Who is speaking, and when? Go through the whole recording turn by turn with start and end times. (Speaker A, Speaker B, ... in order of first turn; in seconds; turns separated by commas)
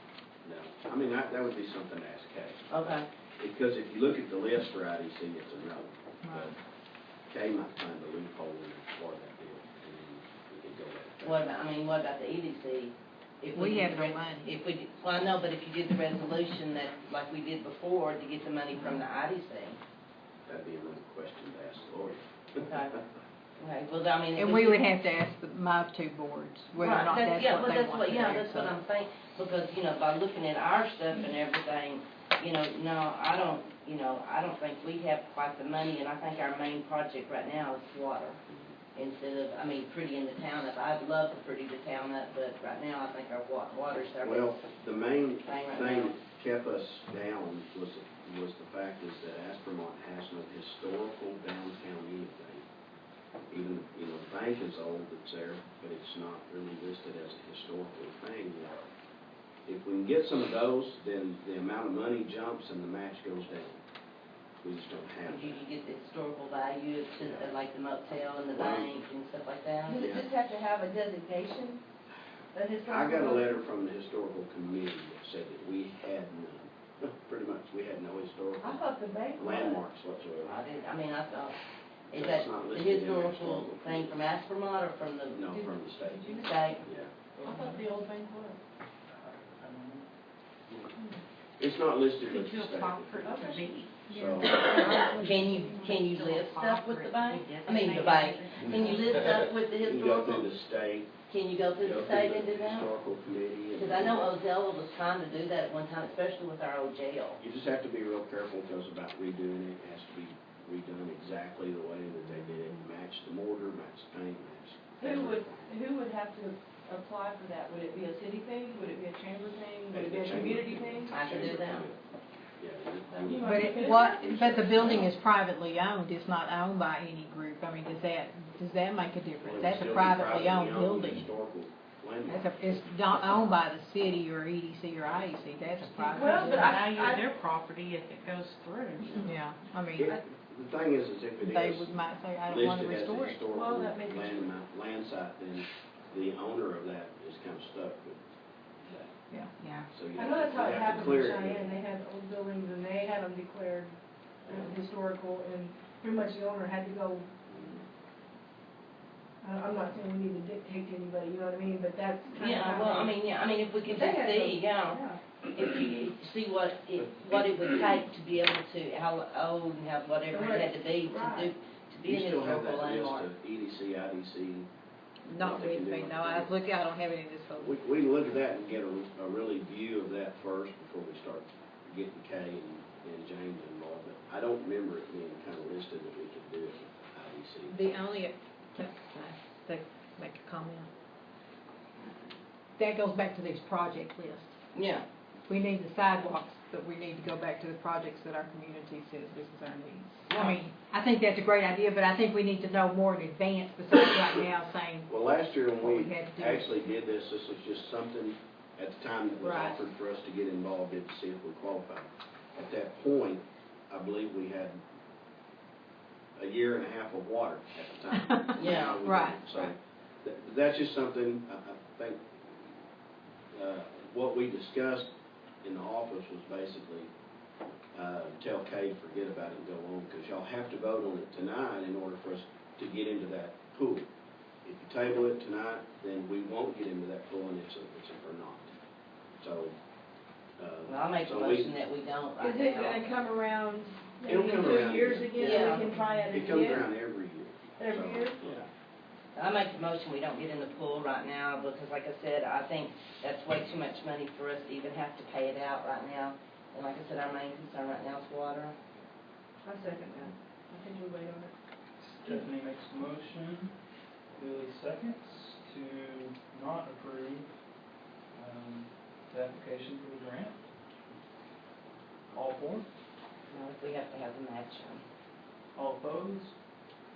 Speaker A: 0.4-6.5, Speaker B: 2.7-3.1, Speaker C: 6.2-6.5, Speaker A: 7.3-11.4, Speaker B: 11.2-19.8, Speaker C: 13.6-14.5, Speaker A: 20.5-22.7, Speaker B: 22.6-22.9, Speaker B: 23.6-24.9, Speaker C: 24.4-28.7, Speaker B: 26.8-38.4, Speaker B: 39.0-44.5, Speaker A: 44.2-52.7, Speaker B: 45.5-46.1, Speaker A: 53.5-58.9, Speaker A: 59.7-63.8, Speaker A: 64.6-65.6, Speaker B: 65.2-70.1, Speaker A: 67.2-67.5, Speaker A: 68.5-68.9, Speaker D: 69.9-71.8, Speaker A: 69.9-70.3, Speaker D: 72.5-73.6, Speaker A: 72.9-80.6, Speaker D: 78.6-79.8, Speaker B: 80.4-81.6, Speaker B: 82.1-85.6, Speaker A: 82.1-84.2, Speaker A: 85.3-87.1, Speaker D: 86.0-86.7, Speaker B: 86.3-86.8, Speaker E: 87.4-87.8, Speaker D: 87.4-88.6, Speaker E: 89.2-90.1, Speaker A: 91.6-93.2, Speaker F: 92.2-99.2, Speaker D: 93.2-93.7, Speaker A: 94.1-94.7, Speaker D: 94.3-96.0, Speaker B: 94.7-100.5, Speaker A: 99.8-101.1, Speaker B: 101.3-102.9, Speaker A: 101.8-104.4, Speaker B: 103.8-107.4, Speaker A: 107.4-115.7, Speaker D: 115.0-121.1, Speaker A: 119.9-122.0, Speaker B: 121.1-121.9, Speaker A: 122.6-123.9, Speaker D: 123.1-125.1, Speaker C: 123.4-131.3, Speaker A: 129.4-133.6, Speaker C: 132.3-136.8, Speaker F: 135.8-139.3, Speaker D: 136.2-137.2, Speaker A: 139.0-139.3, Speaker C: 139.2-140.1, Speaker A: 140.0-148.2, Speaker C: 141.4-143.4, Speaker D: 143.5-144.5, Speaker A: 148.8-149.1, Speaker C: 149.3-149.6, Speaker F: 149.6-149.9, Speaker A: 149.9-151.7, Speaker D: 150.2-153.9, Speaker D: 154.4-157.3, Speaker A: 157.5-157.8, Speaker D: 159.4-163.2, Speaker B: 162.3-165.0, Speaker D: 163.9-165.2, Speaker B: 165.5-173.3, Speaker D: 170.3-171.5, Speaker A: 172.0-174.7, Speaker C: 175.2-177.8, Speaker A: 175.3-176.5, Speaker A: 177.6-188.0, Speaker C: 187.7-190.9, Speaker C: 192.8-194.6, Speaker B: 194.7-195.1, Speaker C: 195.5-205.1, Speaker B: 200.3-200.6, Speaker A: 205.1-214.8, Speaker C: 205.8-206.8, Speaker C: 209.4-209.8, Speaker A: 216.4-222.3, Speaker C: 218.2-219.6, Speaker B: 218.6-219.0, Speaker A: 223.5-225.1, Speaker A: 225.6-227.1, Speaker A: 227.9-234.1, Speaker A: 234.7-238.7, Speaker A: 239.4-239.8, Speaker A: 240.6-241.8, Speaker B: 240.9-243.0, Speaker D: 242.4-246.8, Speaker A: 244.2-248.7, Speaker B: 245.4-245.9, Speaker D: 247.8-248.4, Speaker B: 249.4-258.8, Speaker D: 259.6-261.5, Speaker E: 262.0-263.8, Speaker E: 264.4-267.7, Speaker E: 268.3-270.7, Speaker E: 272.3-272.9, Speaker B: 273.5-275.0, Speaker E: 275.8-276.6